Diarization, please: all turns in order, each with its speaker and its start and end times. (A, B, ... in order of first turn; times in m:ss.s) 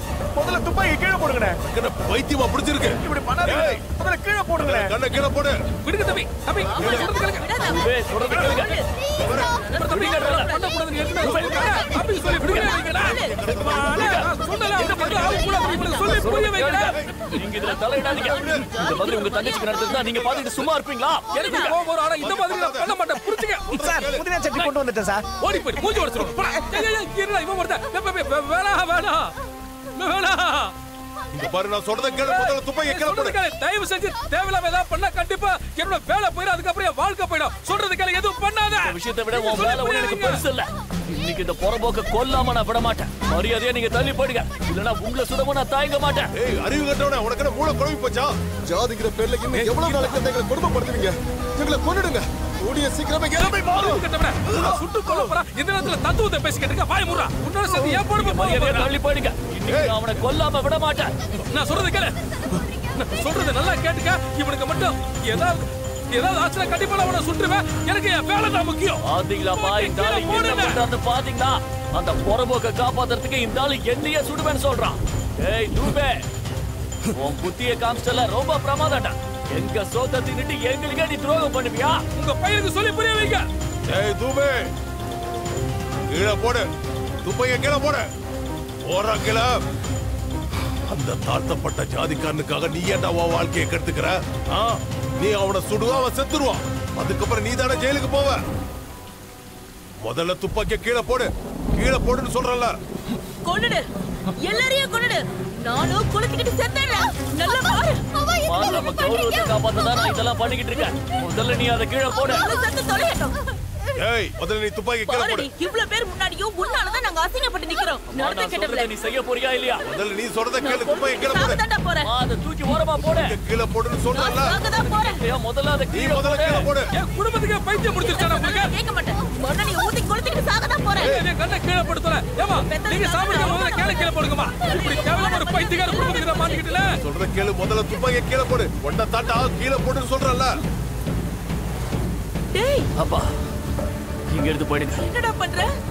0:00.3-0:01.6 A
0:01.7-0:03.8 B
0:03.0-0:05.0 A
0:04.6-0:05.6 B
0:05.8-0:07.5 C
0:06.6-0:10.8 D
0:07.6-0:08.8 E
0:09.1-0:09.6 B
0:09.7-0:17.3 C
0:09.9-0:10.5 E
0:11.2-0:11.6 E
0:11.4-0:13.4 D
0:12.9-0:15.7 B
0:15.6-0:16.2 D
0:16.1-0:21.6 E
0:16.7-0:17.3 B
0:17.6-0:19.9 D
0:18.2-0:18.7 B
0:19.9-0:20.7 B
0:21.3-0:21.8 D
0:21.3-0:23.8 C
0:22.2-0:23.0 B
0:23.7-0:24.3 B
0:23.7-0:25.3 A
0:25.4-0:29.4 C
0:26.4-0:26.8 A
0:29.9-0:30.7 C
0:31.3-0:33.4 B
0:32.2-0:40.4 C
0:38.8-0:46.3 E
0:46.3-0:48.3 B
0:48.6-0:54.0 F
0:49.5-0:50.2 C
0:53.3-0:58.9 C
0:57.9-1:01.1 E
0:59.7-1:00.0 B
1:01.4-1:10.8 C
1:09.0-1:16.3 E
1:17.1-1:22.0 E
1:22.1-1:23.5 C
1:23.8-1:24.7 B
1:26.1-1:26.7 B
1:27.2-1:28.0 B
1:28.8-1:29.6 B
1:30.9-1:38.4 B
1:40.0-1:42.8 B
1:43.4-1:48.2 D
1:48.2-1:52.5 E
1:52.3-1:53.4 D
1:53.9-1:55.5 B
1:55.0-1:58.9 D
1:58.1-1:59.8 E
1:59.8-2:01.6 B
2:00.6-2:02.1 D
2:02.0-2:03.4 E
2:03.0-2:04.6 B
2:04.1-2:05.2 D
2:04.6-2:06.7 E
2:05.9-2:06.9 B
2:06.9-2:08.7 C
2:08.0-2:11.1 D
2:11.0-2:11.3 B
2:11.0-2:17.0 C
2:12.6-2:16.8 D
2:17.0-2:20.6 B
2:22.5-2:22.9 D
2:22.9-2:23.3 E
2:24.3-2:25.1 E
2:25.0-2:25.7 D